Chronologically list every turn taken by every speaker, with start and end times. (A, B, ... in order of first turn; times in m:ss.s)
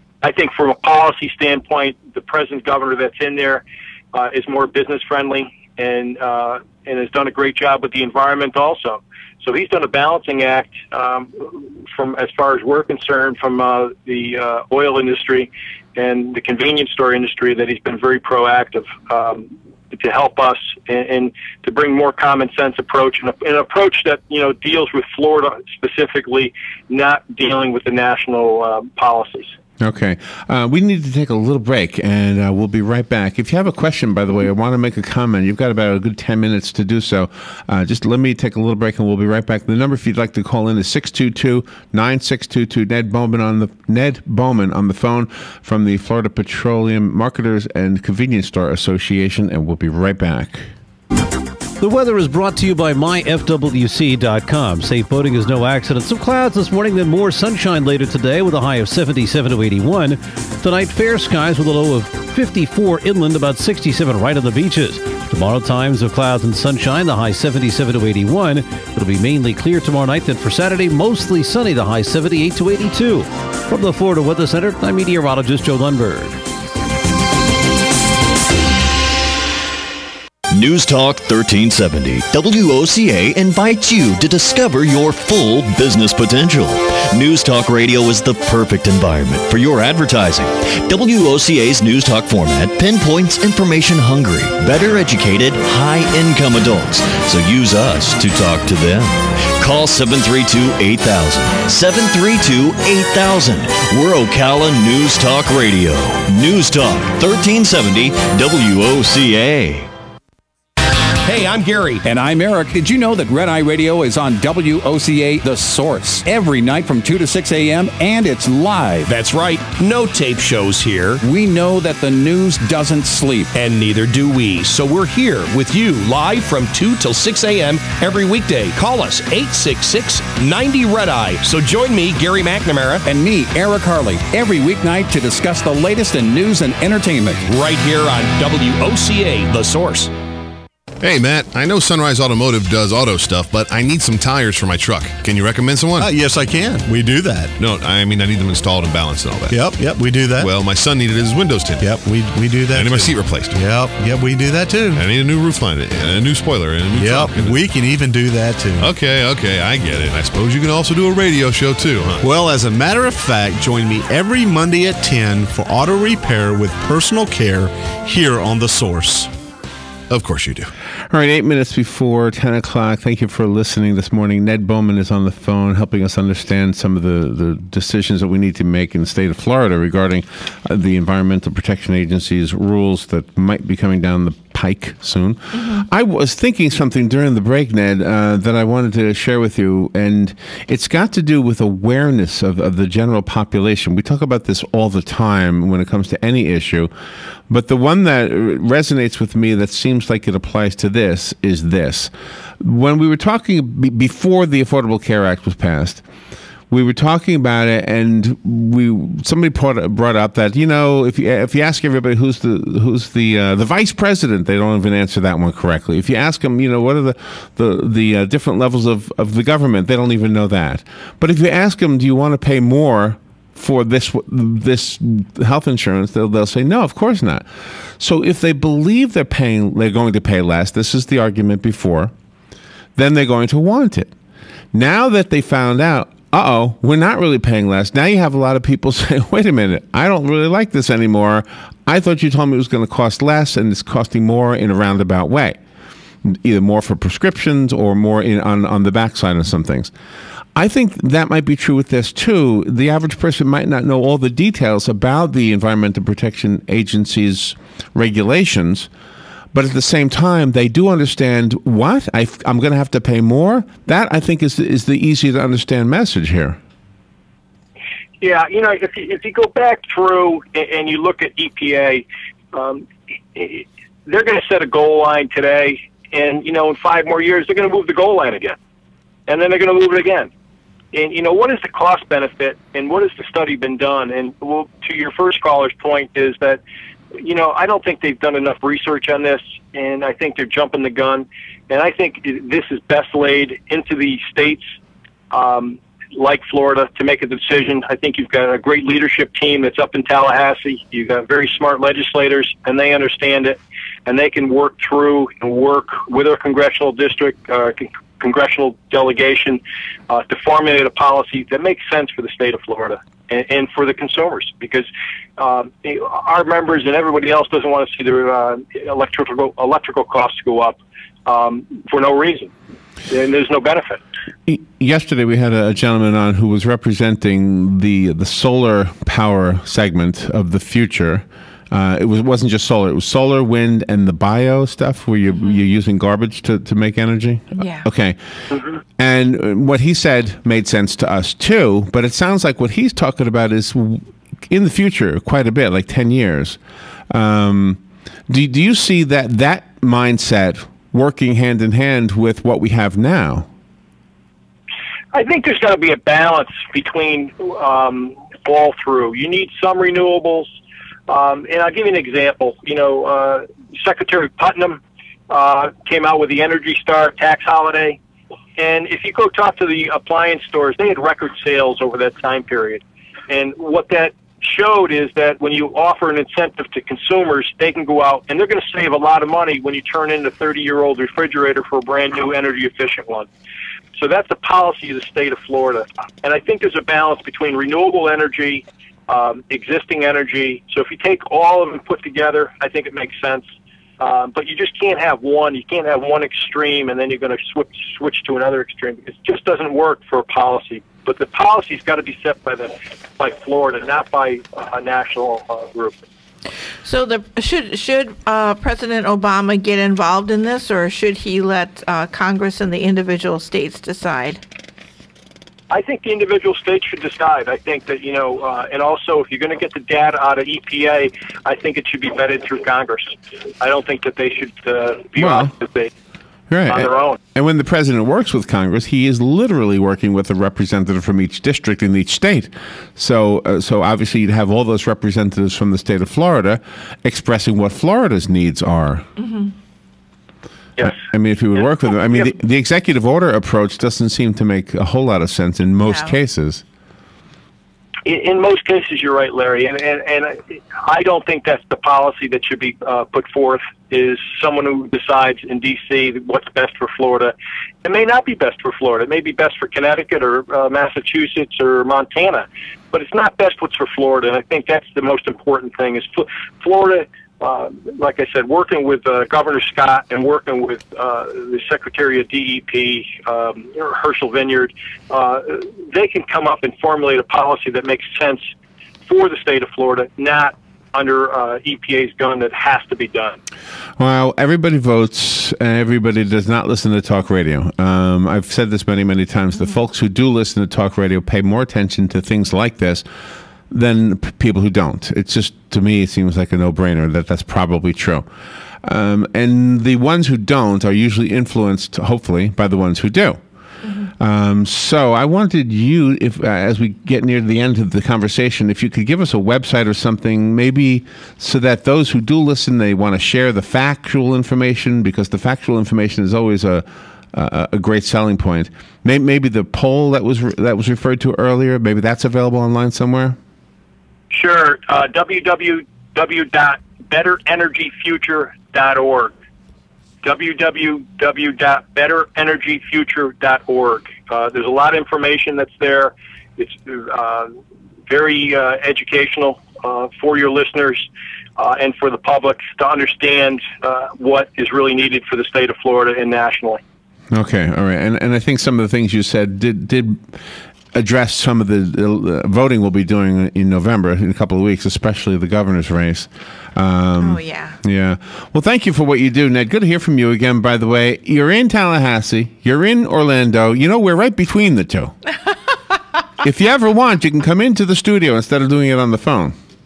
0:00.2-0:29.6 A
0:29.8-0:50.7 B
0:51.8-1:16.4 C
1:20.5-1:49.9 D
1:51.3-1:52.0 E
1:52.0-1:59.1 F
1:59.1-2:01.2 E
2:01.2-2:03.5 F
2:03.5-2:13.0 E
2:13.1-2:17.4 F
2:17.5-2:20.1 E
2:21.0-2:26.1 G
2:26.0-2:27.6 H
2:27.6-2:29.8 G
2:29.5-2:30.5 H
2:30.4-2:32.0 G
2:31.8-2:35.0 H
2:32.7-2:33.6 G
2:34.9-2:37.7 G
2:36.9-2:38.9 H
2:38.8-2:42.3 G
2:42.2-2:49.3 H
2:50.1-2:50.7 G
2:51.1-3:16.9 B
3:17.5-3:26.0 B
3:26.7-3:47.5 B
3:48.0-3:52.1 B
3:53.0-3:54.1 B
3:54.7-4:05.6 B
4:06.2-4:09.9 B
4:10.6-4:18.9 B
4:19.5-4:26.6 B
4:28.2-4:38.6 A
4:39.3-4:40.3 A
4:40.9-4:46.6 A
4:47.2-4:54.7 A
4:55.3-5:22.5 A
5:23.1-5:24.0 A
5:24.5-5:38.2 B
5:37.6-5:37.9 I
5:39.0-5:46.6 B
5:47.1-5:53.5 B
5:55.1-6:00.5 A
6:01.1-6:04.8 A
6:05.3-6:08.0 A
6:08.6-6:23.3 A
6:24.0-6:33.5 A
6:34.0-6:46.0 A
6:46.8-6:54.4 I
6:55.7-7:05.9 A
7:05.2-7:05.5 B
7:06.5-7:19.1 B
7:06.7-7:07.2 A
7:19.2-7:19.5 I
7:20.8-7:26.6 B
7:25.8-7:26.1 I
7:28.1-7:37.3 A
7:37.8-7:58.5 A
7:59.1-8:03.4 A
8:04.0-8:13.0 B
8:13.7-8:18.3 B
8:18.8-8:23.4 B
8:24.0-8:43.4 B
8:44.3-8:49.3 A
8:50.2-8:57.6 A
8:58.1-9:06.8 A
9:07.3-9:10.4 B
9:10.9-9:25.1 B
9:17.2-9:17.8 I
9:26.4-9:29.6 B